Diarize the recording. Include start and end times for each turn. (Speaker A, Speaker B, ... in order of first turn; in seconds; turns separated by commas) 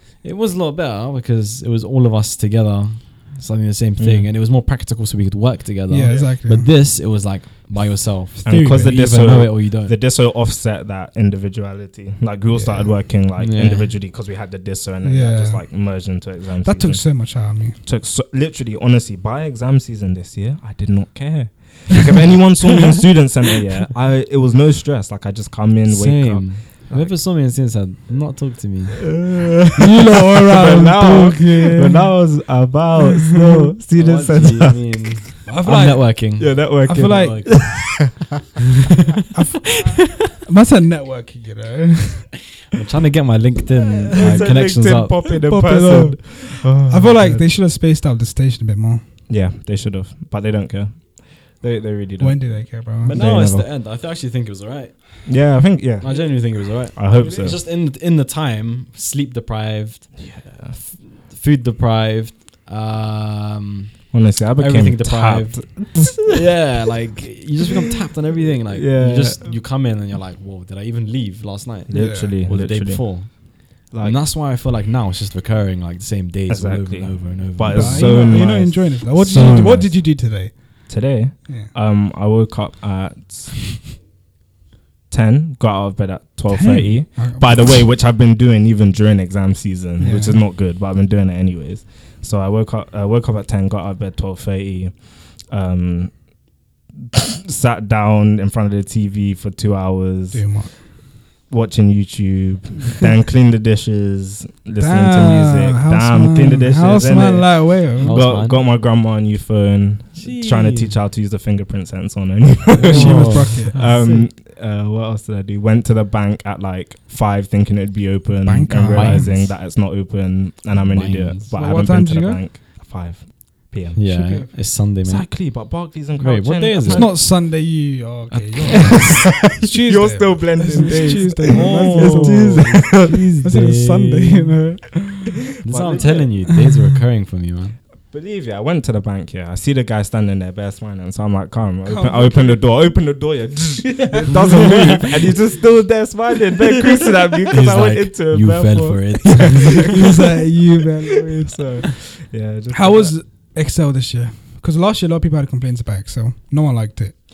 Speaker A: 0.2-10.0, Speaker B: 4.0-4.3, Speaker C: 5.9-6.7, Speaker C: 8.4-9.0, Speaker B: 8.4-27.2, Speaker C: 12.5-13.1, Speaker A: 13.4-14.0, Speaker C: 15.0-16.0, Speaker C: 16.6-17.8, Speaker A: 25.9-29.2, Speaker B: 29.0-35.1, Speaker C: 29.8-32.3, Speaker A: 34.0-38.0, Speaker C: 35.5-37.6, Speaker B: 36.4-38.3, Speaker C: 39.3-42.3, Speaker A: 42.7-45.2, Speaker C: 44.0-44.3, Speaker B: 44.1-47.4, Speaker C: 45.3-49.0, Speaker B: 49.3-53.7, Speaker C: 52.2-53.2, Speaker A: 53.0-78.5, Speaker B: 55.3-57.6, Speaker C: 57.2-57.5, Speaker B: 60.2-60.8, Speaker B: 64.1-66.4, Speaker B: 68.7-69.5, Speaker B: 71.9-73.4, Speaker C: 71.9-72.3, Speaker B: 73.9-74.2, Speaker B: 76.5-80.3, Speaker C: 77.7-80.9, Speaker A: 79.3-79.7, Speaker B: 80.9-83.8, Speaker C: 81.5-81.7, Speaker B: 85.1-96.2, Speaker C: 86.5-87.9, Speaker C: 90.0-90.4, Speaker B: 97.1-100.9, Speaker C: 100.3-100.8, Speaker B: 101.5-124.0, Speaker C: 104.8-108.2, Speaker A: 108.0-108.6, Speaker A: 110.2-111.0, Speaker A: 112.7-114.3, Speaker C: 112.8-113.8, Speaker C: 118.4-119.5, Speaker A: 118.9-119.5, Speaker A: 120.8-121.5, Speaker C: 121.5-122.5, Speaker A: 124.0-125.5, Speaker C: 124.0-124.5, Speaker B: 125.0-127.2, Speaker A: 126.2-127.4, Speaker C: 126.8-135.3, Speaker A: 128.3-129.2, Speaker B: 128.8-133.3, Speaker A: 130.8-134.6, Speaker B: 135.6-136.4, Speaker A: 135.6-137.8, Speaker C: 136.2-136.8, Speaker B: 138.1-149.9, Speaker C: 141.8-142.7, Speaker C: 143.9-145.2, Speaker A: 144.3-145.4, Speaker A: 147.5-150.1, Speaker C: 149.8-152.0, Speaker B: 151.4-153.2, Speaker C: 152.7-157.2